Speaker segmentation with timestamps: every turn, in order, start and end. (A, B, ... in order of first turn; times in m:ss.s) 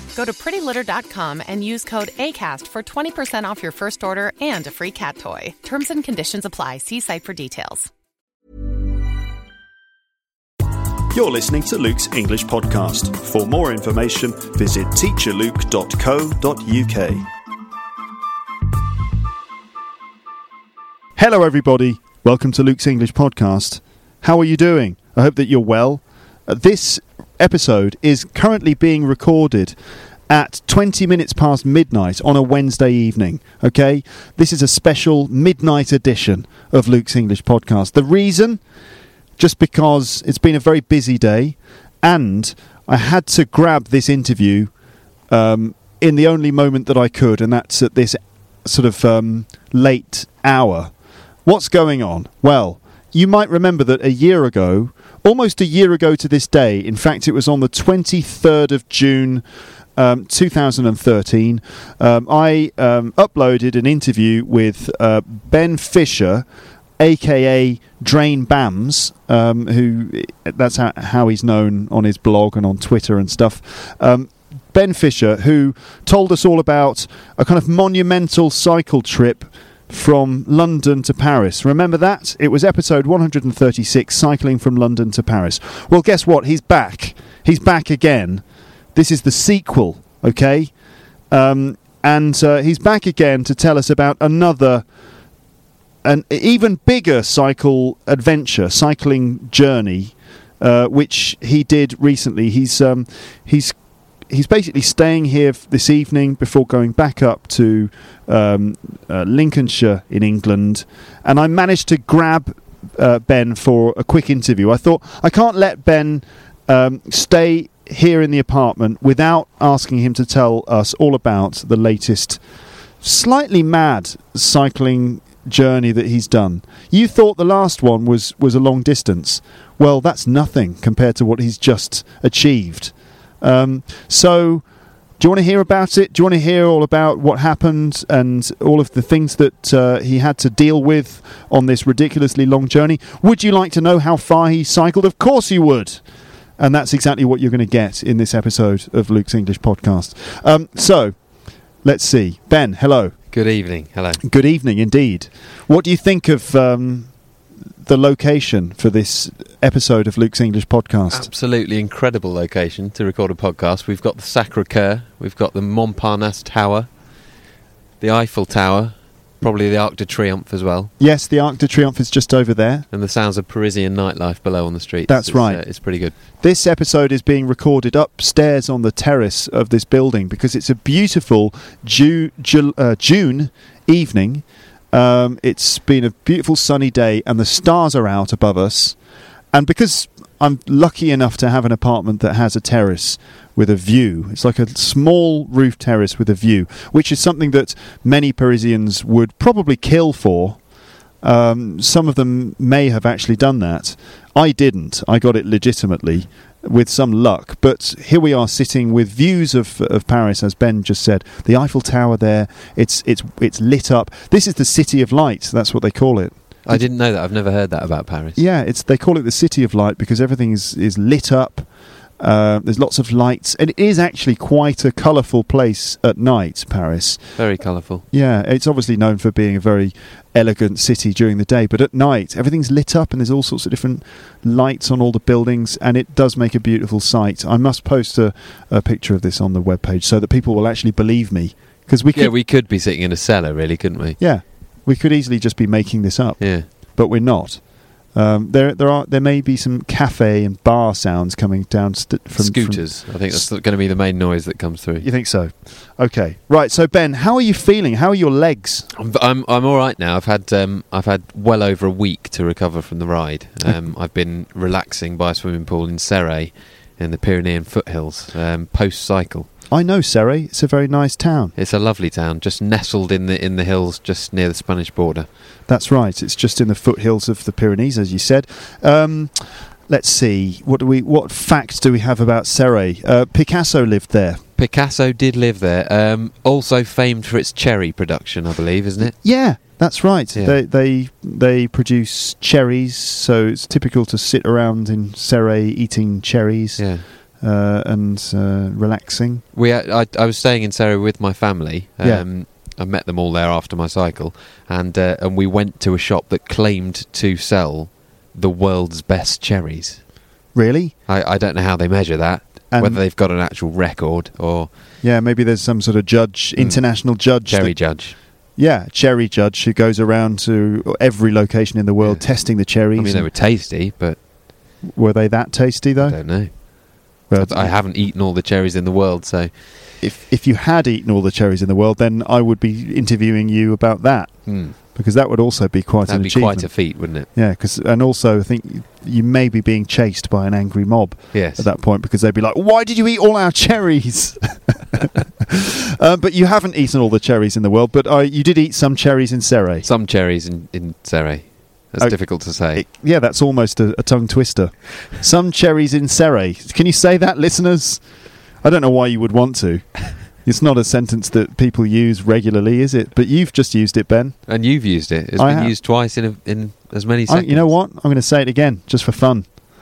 0:00.1-0:07.9 A
0:11.1-0:17.3 B
0:21.2-0:29.7 B
0:30.3-0:38.6 B
0:39.4-0:44.7 B
0:45.3-0:50.9 B
0:51.4-0:59.4 B
1:00.0-1:06.4 B
1:07.0-1:28.4 B
1:28.9-1:30.7 B
1:31.3-1:34.8 B
1:36.0-1:43.7 B
1:44.3-2:02.4 B
2:03.0-2:14.6 B
2:15.2-2:26.0 B
2:26.6-2:31.2 B
2:31.8-2:33.1 B
2:33.3-2:34.2 C
2:34.2-2:37.1 B
2:37.8-2:41.3 B
2:41.1-2:46.9 C
2:48.0-2:50.9 C
2:51.0-2:52.8 B
2:52.9-2:56.1 C
2:55.1-2:55.6 B
2:56.4-3:09.0 B
3:09.5-3:20.6 B
3:21.2-3:36.8 B
3:36.6-3:38.4 C
3:38.4-3:41.7 B
3:42.2-3:47.2 B
3:47.4-3:48.0 C
3:48.1-4:02.3 B
4:02.1-4:04.2 C
4:04.2-4:13.4 B
4:06.4-4:06.7 C
4:12.4-4:15.1 C
4:15.0-4:18.9 B
4:18.9-4:29.5 C
4:29.7-4:31.5 B
4:31.6-4:35.3 C
4:35.7-4:44.4 B
4:44.6-4:49.1 C
4:49.0-4:56.8 B
4:56.8-4:57.0 C
4:57.4-4:59.4 B
4:59.5-5:10.0 C
5:02.0-5:02.2 B
5:10.5-5:10.9 B
5:11.1-5:14.7 C
5:12.7-5:13.0 B
5:15.0-5:17.8 B
5:17.4-5:18.1 C
5:18.6-5:23.3 B
5:22.0-5:22.3 C
5:22.9-5:24.2 C
5:24.8-5:26.2 B
5:26.0-5:29.5 C
5:27.3-5:27.7 B
5:30.0-5:49.8 B
5:34.4-5:34.8 C
5:36.1-5:37.3 C
5:41.3-5:41.6 C
5:49.8-5:52.8 C
5:52.0-5:58.0 B
5:58.6-6:04.5 B
6:04.5-6:07.7 C
6:05.4-6:05.7 B
6:07.3-6:09.6 B